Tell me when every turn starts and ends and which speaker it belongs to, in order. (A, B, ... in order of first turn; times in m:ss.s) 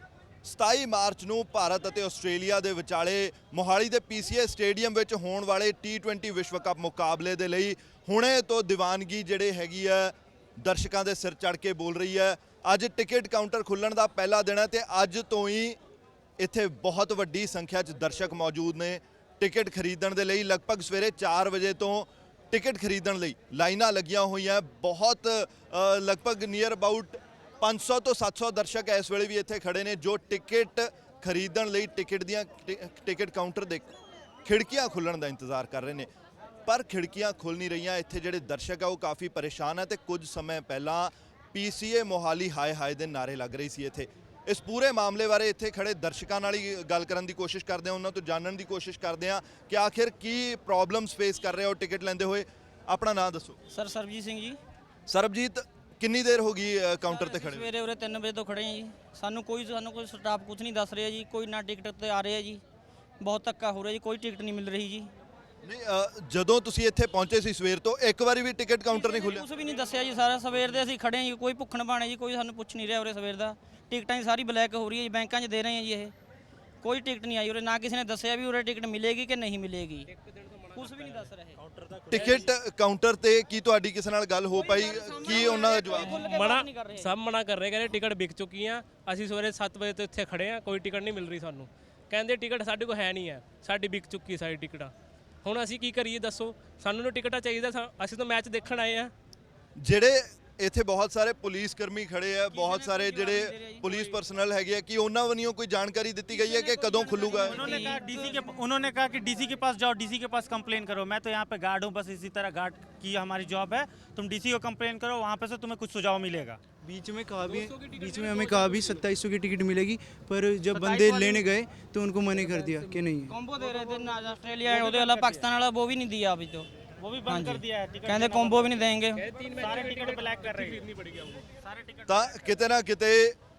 0:00.4-0:15.8 A
0:16.4-0:33.9 A
0:34.4-0:36.1 A
0:36.7-0:53.6 A
0:53.7-0:54.6 B
0:55.1-0:57.7 A
0:57.1-1:02.6 B
1:03.2-1:05.1 B
1:05.6-1:09.4 A
1:08.9-1:16.1 B
1:16.8-1:20.1 B
1:20.1-1:21.3 C
1:20.8-1:21.6 B
1:21.6-1:22.4 D
1:22.1-1:26.2 A
1:24.5-1:27.1 B
1:25.9-1:34.9 C
1:35.4-1:39.1 C
1:39.8-1:47.9 A
1:42.5-1:44.2 B
1:46.3-1:48.6 B
1:47.4-1:56.6 D
1:56.8-2:03.3 E
1:57.4-1:59.0 C
2:00.7-2:01.5 D
2:03.3-2:06.7 B
2:03.6-2:04.1 D
2:04.7-2:05.4 D
2:07.0-2:08.7 D
2:07.3-2:09.2 B
2:09.2-2:11.5 C
2:09.6-2:10.8 D
2:11.6-2:12.3 D
2:12.1-2:13.4 A